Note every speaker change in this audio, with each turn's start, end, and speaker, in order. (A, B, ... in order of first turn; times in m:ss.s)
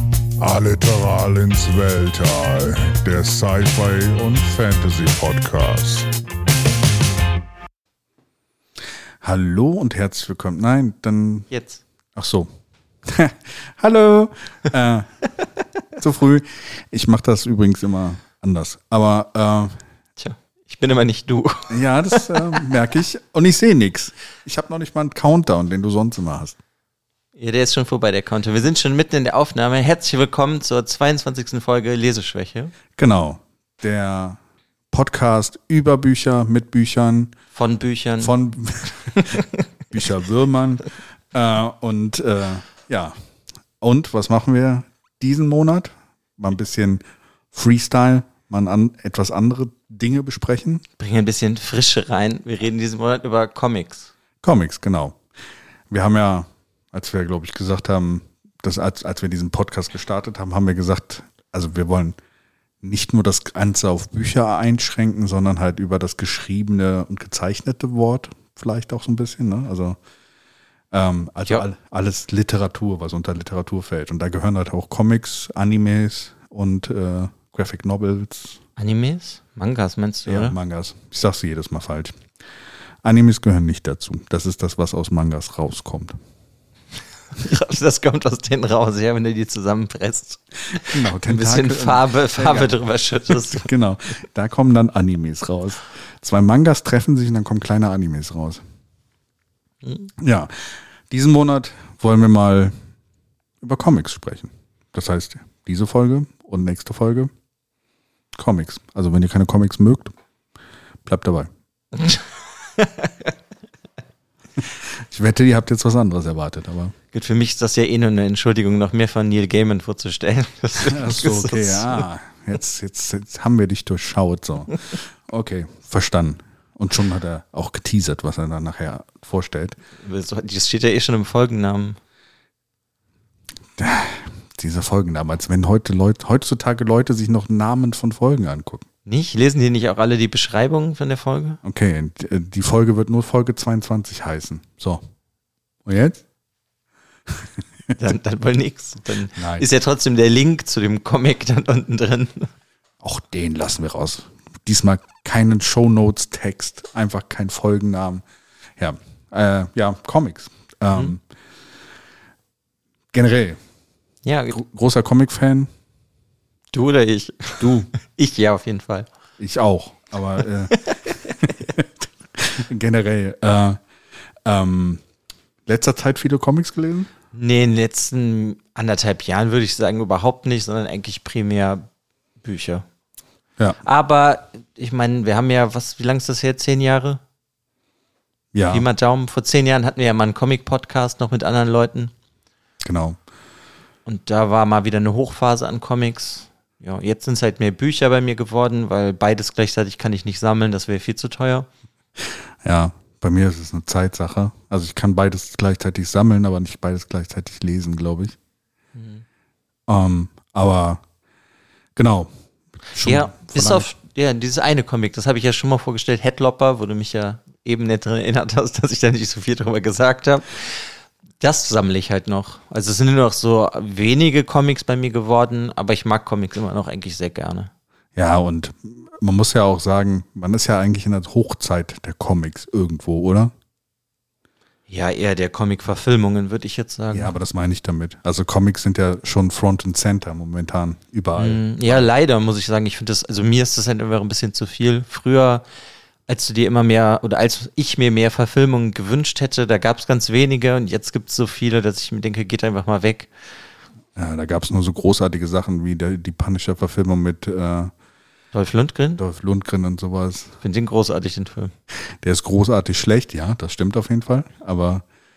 0:00.4-0:06.1 A
0:09.2-0:11.5 B
0:11.5-0:11.8 C
0:12.1-0:15.1 B
0:16.0-0:19.8 B
0:20.2-0:22.6 C
0:21.7-0:26.6 B
0:27.4-0:32.7 C
0:33.0-0:34.4 B
0:34.9-0:37.4 B
0:37.5-0:38.3 C
0:38.2-0:43.2 B
0:39.1-0:39.4 C
0:43.8-0:50.8 B
0:51.0-0:54.1 C
0:54.4-0:55.2 B
0:55.9-1:02.2 B
1:02.8-1:10.0 B
1:10.9-1:18.6 B
1:18.8-1:20.6 C
1:20.2-1:22.2 B
1:23.0-1:26.2 B
1:27.3-1:33.7 C
1:30.9-1:32.7 B
1:33.3-1:38.6 B
1:39.8-1:40.1 C
1:40.2-1:42.7 B
1:43.6-1:47.3 B
1:48.3-1:50.1 B
1:51.0-1:51.5 B
1:51.9-1:53.3 C
1:54.6-1:56.9 B
1:57.1-2:02.0 C
2:00.8-2:09.8 B
2:10.0-2:12.0 C
2:13.8-2:18.8 B
2:19.0-2:21.6 C
2:21.6-2:25.0 B
2:25.8-2:26.2 B
2:27.3-2:27.9 B
2:28.0-2:32.5 C
2:29.3-2:29.7 B
2:33.0-2:38.2 B
2:38.8-2:41.2 B
2:43.1-2:43.6 B
2:44.2-2:44.6 C
2:44.5-2:45.7 B
2:46.7-2:49.1 C
2:47.6-2:47.9 B
2:49.4-2:50.8 B
2:50.7-2:51.5 C
2:51.4-2:53.8 B
2:54.4-2:55.0 B
2:55.6-2:57.1 B
2:57.3-3:01.8 C
3:02.4-3:02.8 C
3:03.8-3:07.2 C
3:08.5-3:08.9 B
3:08.7-3:12.1 C
3:12.8-3:13.2 B
3:14.0-3:21.7 C
3:22.2-3:28.4 B
3:29.0-3:29.2 C
3:29.9-3:31.0 B
3:32.0-3:32.3 B
3:32.9-3:33.9 B
3:33.0-3:47.7 C
3:48.2-3:53.5 B
3:54.9-3:57.3 C
3:57.1-4:02.1 B
4:01.4-4:05.6 C
4:06.3-4:13.3 C
4:14.2-4:17.9 B
4:18.5-4:19.2 C
4:19.2-4:20.6 B
4:20.6-4:21.7 C
4:21.9-4:25.0 B